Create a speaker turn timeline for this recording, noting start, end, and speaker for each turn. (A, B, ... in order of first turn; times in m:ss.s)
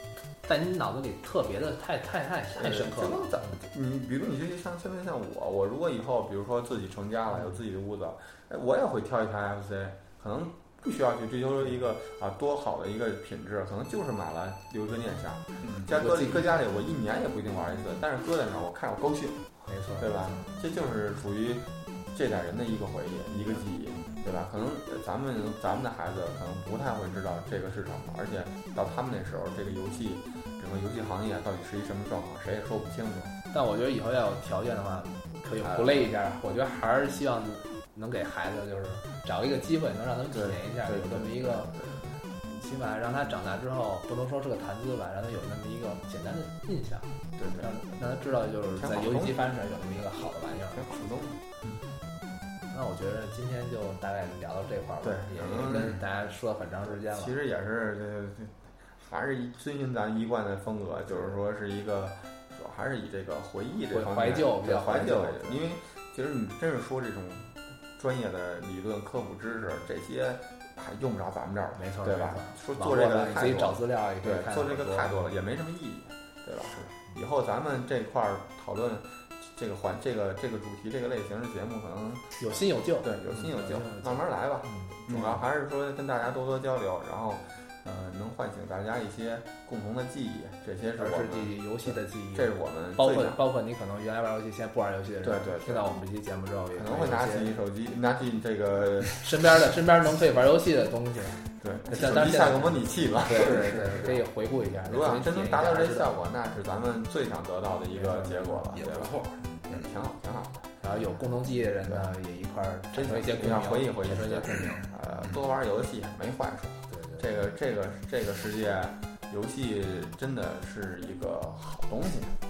0:00.4-0:03.6 A
0:02.6-0:19.4 B
0:15.6-0:15.9 C
0:15.9-0:16.5 A
0:19.6-0:20.5 A
0:20.0-0:33.3 B
0:33.5-0:41.7 A
0:35.6-0:36.1 B
0:40.3-0:42.0 B
0:42.5-0:51.1 A
0:47.4-0:47.7 B
0:48.8-0:49.4 B
0:50.7-0:51.7 B
0:52.7-0:57.3 A
0:55.0-0:56.0 B
0:56.9-1:22.2 B
1:03.9-1:05.6 A
1:11.8-1:15.4 A
1:22.4-1:25.0 A
1:23.0-1:33.4 B
1:25.1-1:25.4 C
1:31.0-1:37.5 A
1:35.2-1:35.9 B
1:36.8-1:39.2 B
1:39.2-1:46.1 A
1:41.6-1:44.2 B
1:43.3-1:44.2 C
1:44.8-1:49.1 B
1:47.9-1:48.8 A
1:48.7-1:49.8 C
1:49.7-1:50.7 B
1:50.8-1:54.9 A
1:51.8-1:52.1 B
1:53.0-2:02.4 B
1:54.5-1:55.4 C
1:56.9-1:57.2 A